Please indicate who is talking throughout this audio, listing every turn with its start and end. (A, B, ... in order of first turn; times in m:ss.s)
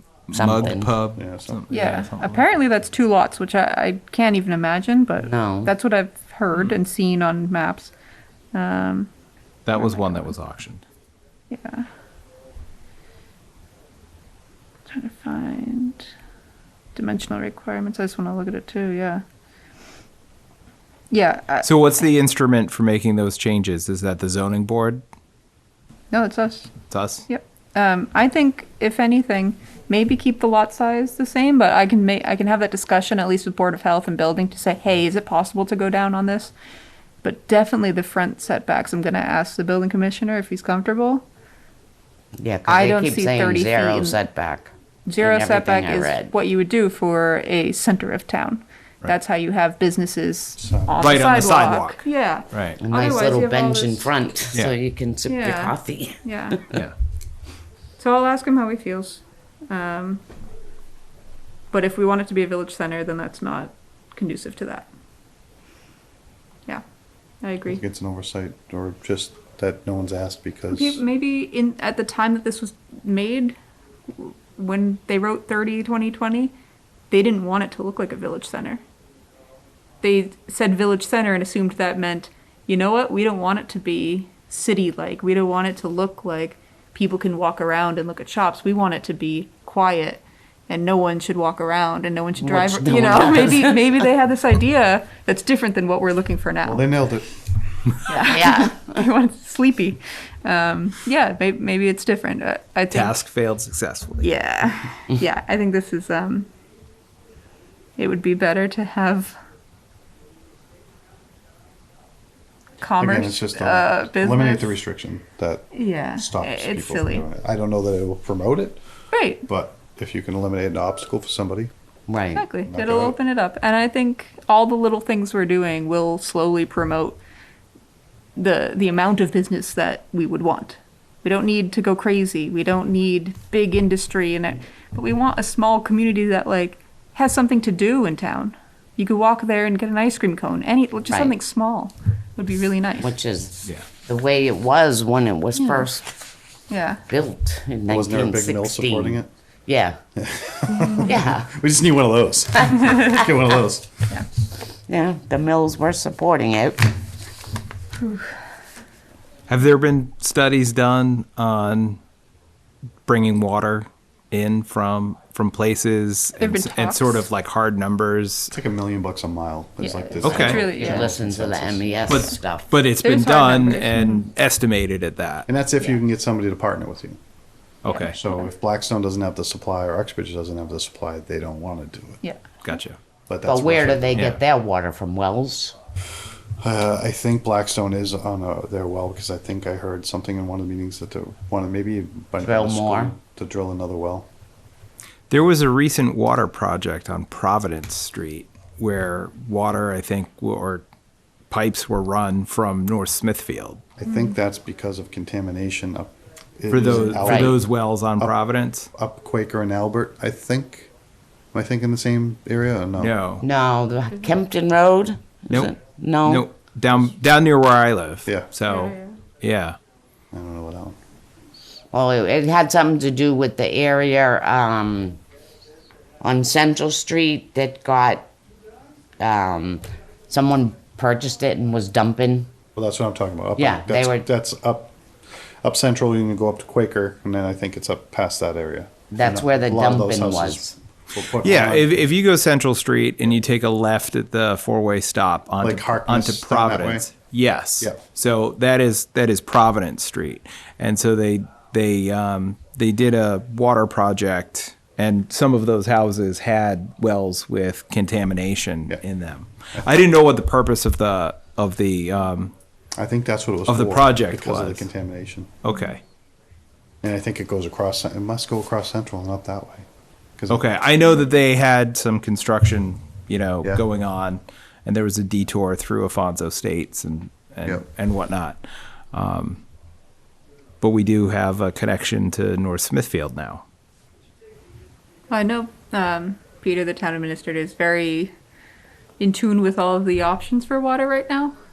0:00.3-0:02.5 A
0:00.3-0:00.9 B
0:01.1-0:01.9 C
0:01.7-0:07.9 D
0:05.2-0:05.7 B
0:08.5-0:09.1 D
0:09.6-0:10.8 A
0:09.7-0:10.4 D
0:11.5-0:11.9 D
0:14.9-0:16.1 D
0:16.9-0:19.2 D
0:21.1-0:21.7 D
0:21.6-0:25.0 A
0:26.1-0:26.7 D
0:26.9-0:27.2 A
0:27.3-0:36.5 D
0:37.2-0:41.2 D
0:42.4-0:46.3 B
0:42.6-0:44.2 D
0:45.0-0:54.1 D
0:50.6-0:51.0 C
0:51.0-0:52.8 A
0:52.8-0:56.8 B
0:55.2-0:56.6 D
0:58.0-1:00.2 D
1:01.7-1:04.9 D
1:07.4-1:07.8 D
1:07.7-1:11.0 C
1:10.7-1:13.6 D
1:14.1-1:16.5 D
1:17.1-1:18.8 D
1:20.0-1:36.9 D
1:32.4-1:33.8 B
1:36.6-1:37.4 C
1:38.0-1:43.1 D
1:38.2-1:39.0 B
1:42.9-1:44.3 A
1:44.2-1:46.5 D
1:48.0-1:49.4 D
1:52.8-1:54.8 D
1:53.0-1:58.8 C
1:55.7-1:57.2 D
1:59.1-1:59.4 D
1:59.4-2:01.7 C
2:02.1-2:02.5 B
2:02.3-2:07.2 D
2:02.6-2:03.2 C
2:08.4-2:23.1 D
2:21.1-2:21.4 B
2:23.0-2:26.1 B
2:25.5-2:25.9 D
2:26.7-2:27.0 D
2:27.1-2:30.0 B
2:27.9-2:29.3 C
2:30.2-2:34.1 C
2:30.7-2:31.1 D
2:31.0-2:31.5 B
2:34.9-2:36.9 B
2:39.5-2:42.0 A
2:43.0-2:48.5 A
2:46.4-2:47.3 D
2:48.5-2:52.1 C
2:49.8-2:51.1 D
2:50.2-2:50.7 A
2:50.3-2:52.7 B
2:52.1-2:55.5 A
2:53.0-2:54.2 D
2:55.5-2:57.2 C
2:57.8-2:58.2 A
2:57.9-2:58.5 D
2:58.1-3:02.2 C
3:02.6-3:03.0 A
3:03.3-3:04.2 C
3:03.4-3:05.7 B
3:04.1-3:04.4 A
3:06.6-3:14.3 C
3:12.4-3:13.1 B
3:15.3-3:20.8 A
3:21.5-3:23.8 A
3:24.0-3:27.7 C
3:24.0-3:24.4 D
3:26.7-3:28.9 A
3:26.7-3:27.2 D
3:27.2-3:27.6 B
3:28.9-3:30.9 C
3:31.5-3:33.2 C
3:33.0-3:33.4 A
3:33.4-3:36.5 B
3:35.5-3:39.8 A
3:38.6-3:39.2 D
3:40.3-3:41.0 C
3:41.9-3:45.2 B
3:46.2-3:48.3 B
3:49.2-3:52.5 B
3:52.7-3:55.0 C
3:53.6-3:54.3 B
3:55.6-4:02.0 C
3:59.1-4:00.7 B
4:01.3-4:22.5 A
4:05.6-4:07.1 C
4:23.0-4:25.6 C
4:23.7-4:24.9 A
4:25.6-4:26.0 A
4:27.0-4:29.9 C
4:30.4-4:30.7 C
4:30.5-4:38.6 A
4:39.1-4:39.6 A
4:40.8-4:43.6 A
4:45.3-4:48.3 D
4:49.2-4:51.5 D